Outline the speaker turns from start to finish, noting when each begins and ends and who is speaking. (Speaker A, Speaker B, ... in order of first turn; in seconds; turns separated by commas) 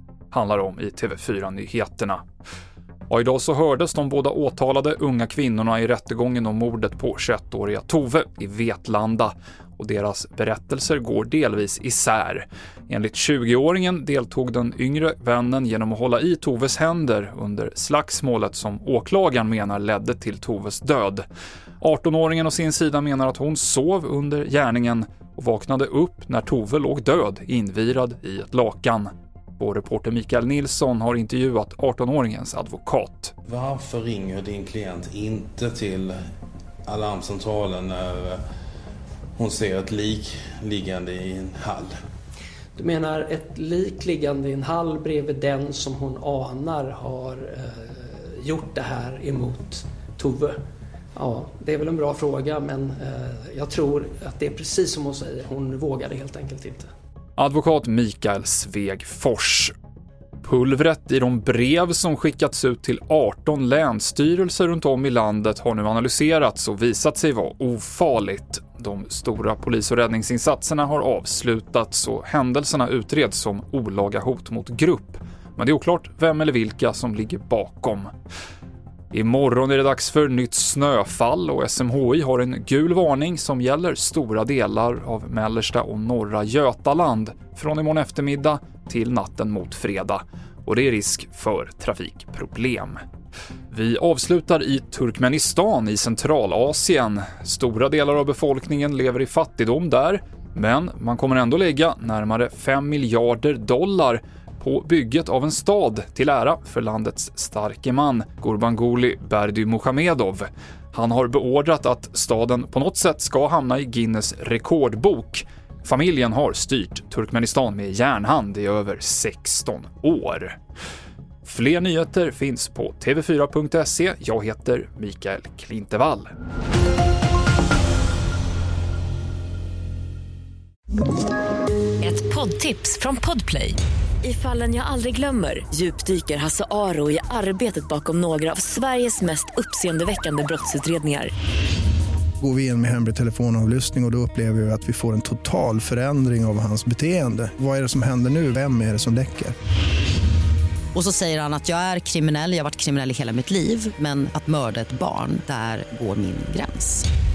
Speaker A: 0.3-2.2, Speaker A: 3.1-21.2, Speaker A: 21.8-33.3, Speaker B: 33.5-36.1, Speaker B: 36.9-38.4, Speaker B: 39.4-41.9, Speaker C: 42.8-50.6, Speaker C: 51.2-56.9, Speaker A: 57.4-59.7, Speaker A: 60.4-78.1, Speaker A: 79.1-93.0, Speaker A: 93.7-120.5, Speaker A: 121.4-126.3, Speaker D: 132.0-141.3, Speaker E: 142.4-149.5, Speaker F: 150.9-157.0